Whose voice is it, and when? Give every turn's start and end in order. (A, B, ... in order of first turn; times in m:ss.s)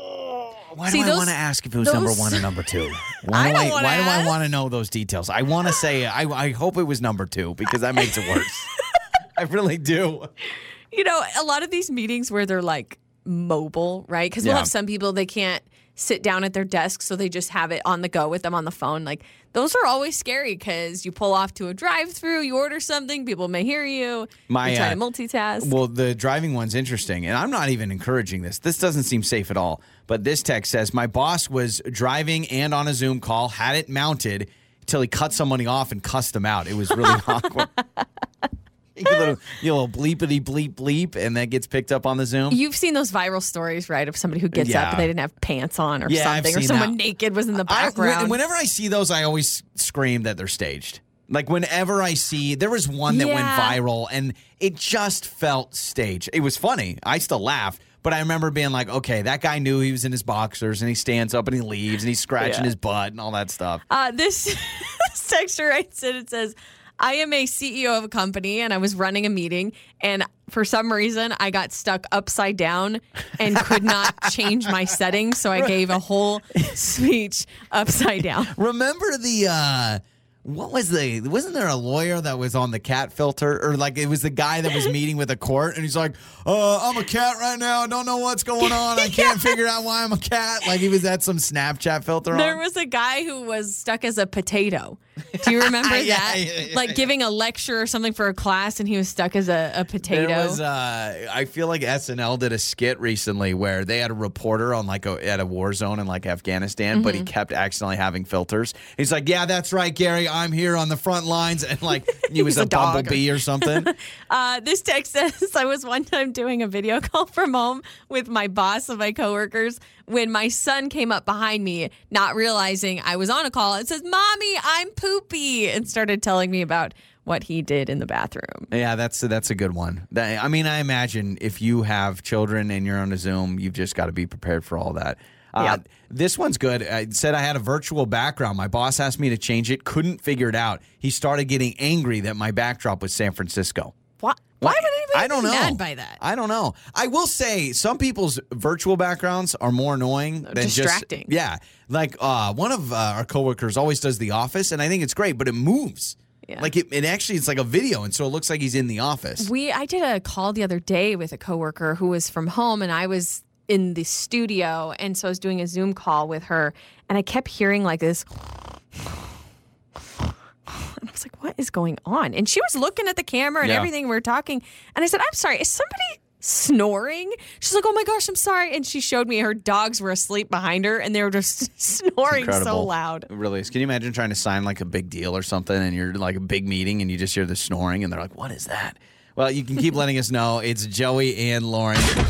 0:00.7-0:08.7 A
0:00.9-0:02.5 B
0:03.3-0:04.3 B
0:09.4-0:10.3 A
0:10.9-0:25.7 B
0:14.4-0:14.7 A
0:24.5-0:25.0 A
0:25.6-0:37.7 A
0:37.0-0:37.4 B
0:39.0-0:42.6 A
0:42.5-0:48.4 B
0:44.5-0:45.1 A
0:46.1-0:46.9 A
0:47.6-1:03.8 A
0:53.1-0:53.8 B
1:02.4-1:02.7 B
1:03.9-1:18.5 B
1:18.5-1:32.6 A
1:28.6-1:29.6 B
1:32.3-1:40.6 B
1:35.4-1:37.1 A
1:40.0-1:53.9 A
1:46.9-1:47.3 B
1:52.3-2:08.7 B
2:08.7-2:23.9 A
2:24.2-2:26.2 B
2:24.6-2:39.5 A
2:30.4-2:31.3 B
2:39.4-2:48.3 B
2:50.7-3:03.3 B
2:53.6-2:53.9 A
3:02.3-3:12.1 A